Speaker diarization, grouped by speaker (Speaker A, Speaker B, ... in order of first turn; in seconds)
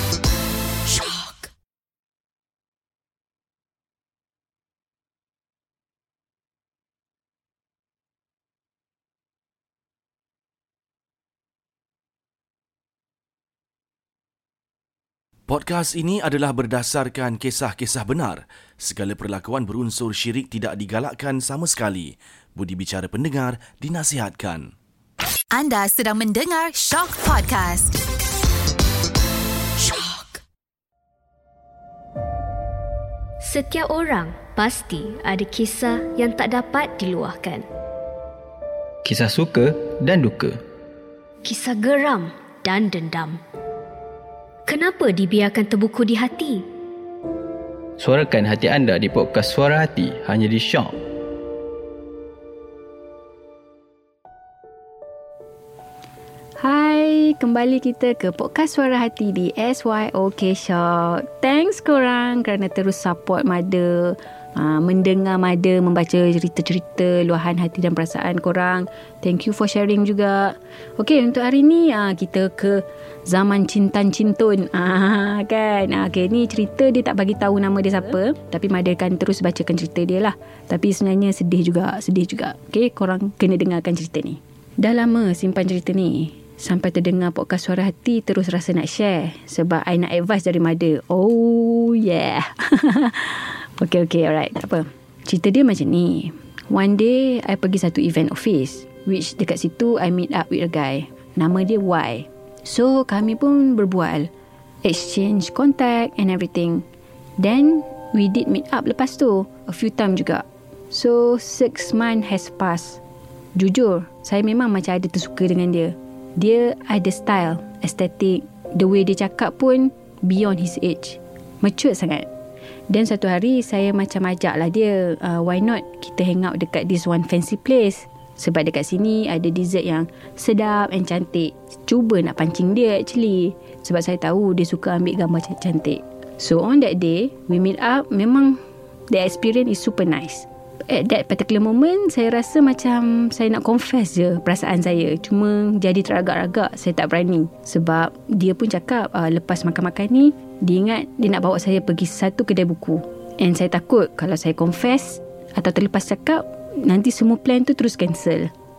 Speaker A: 0.9-1.5, 25.5-27.9, 29.8-30.4
Speaker B: 15.5-24.7
Speaker C: 33.4-37.7, 41.4-43.4, 44.7-46.6
Speaker D: 39.0-40.6, 48.0-51.0
Speaker E: 56.6-104.3, 104.8-106.9, 107.4-113.0, 113.5-122.3, 122.9-158.5